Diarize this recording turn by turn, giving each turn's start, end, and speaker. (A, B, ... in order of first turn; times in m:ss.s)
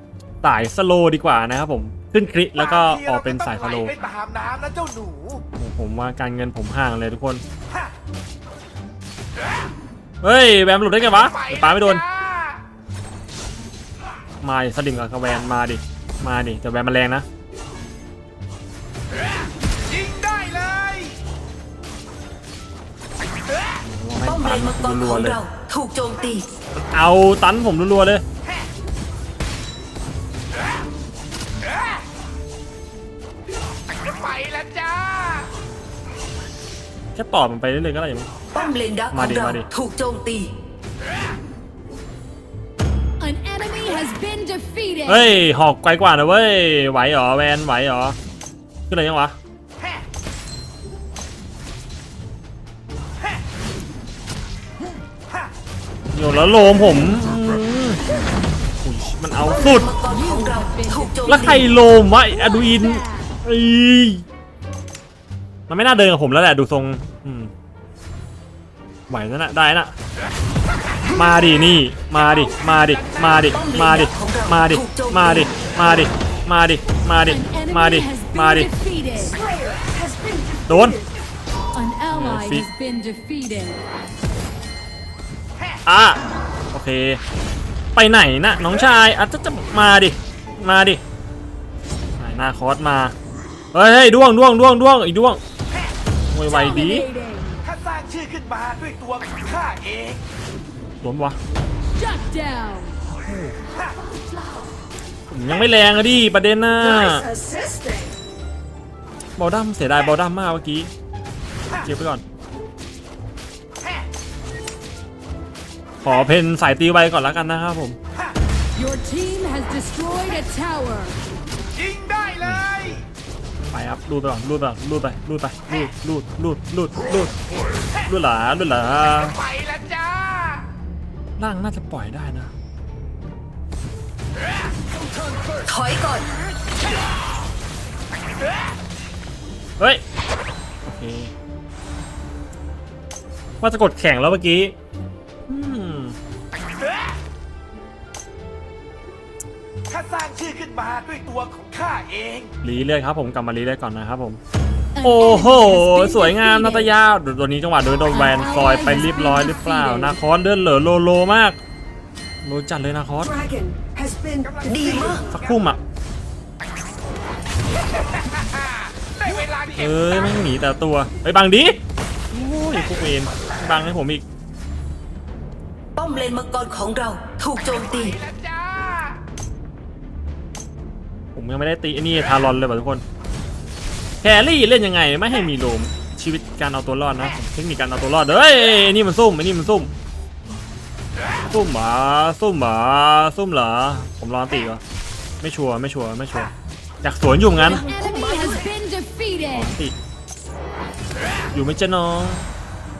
0:00.4-0:04.0 A
0:02.8-0:05.4 B
0:05.6-0:07.4 A
0:10.2-0:12.0 A
0:14.4-0:17.2 A
0:19.9-0:21.1 B
0:23.9-0:25.4 A
0:24.2-0:26.5 C
0:26.9-0:28.2 A
0:34.2-0:35.4 B
0:37.1-0:38.3 A
0:38.5-0:40.5 C
0:39.1-0:39.7 A
0:43.2-0:45.3 D
0:45.1-0:48.2 A
0:48.9-0:49.4 A
0:56.1-0:58.0 A
0:58.8-0:59.9 A
0:59.4-1:01.7 C
1:00.0-1:03.3 D
1:01.3-1:04.2 A
1:05.7-1:07.5 A
1:09.1-1:09.9 A
1:11.1-1:18.7 A
1:13.5-1:15.5 C
1:17.2-1:19.4 D
1:19.4-1:21.0 E
1:20.6-1:21.0 A
1:21.7-1:23.8 D
1:22.1-1:22.7 A
1:25.9-1:26.2 A
1:26.7-1:27.2 A
1:28.0-1:31.0 A
1:32.2-1:33.1 A
1:33.7-1:35.4 A
1:36.3-1:37.1 A
1:36.4-1:37.6 D
1:37.7-1:40.2 B
1:41.0-1:41.4 A
1:41.9-1:42.9 D
1:43.1-1:43.5 A
1:45.3-1:47.3 A
1:47.0-1:48.1 E
1:49.4-1:50.9 A
1:51.8-1:52.2 A
1:56.0-1:58.0 A
1:58.7-2:01.2 D
2:01.8-2:02.4 B
2:02.4-2:03.0 A
2:03.6-2:07.3 A
2:08.1-2:09.4 A
2:11.4-2:12.5 A
2:15.6-2:16.3 C
2:20.8-2:21.3 A
2:23.6-2:24.7 A
2:25.5-2:26.2 A
2:29.9-2:32.5 B
2:32.6-2:34.4 A
2:34.9-2:36.9 D
2:35.0-2:41.6 A
2:38.1-2:40.2 D
2:42.4-2:43.4 A
2:43.2-2:44.6 E
2:44.5-2:45.2 B
2:44.6-2:45.3 C
2:45.2-2:45.8 A
2:49.2-2:49.7 B
2:49.7-2:51.8 A
2:52.3-2:54.2 A
2:56.0-2:58.2 C
2:58.4-2:59.0 B
3:01.3-3:03.0 A
3:04.2-3:09.9 A
3:11.4-3:14.8 A
3:15.4-3:16.5 A
3:17.0-3:17.8 A
3:17.5-3:18.6 C
3:17.6-3:19.7 D
3:19.5-3:20.0 A
3:21.5-3:22.4 A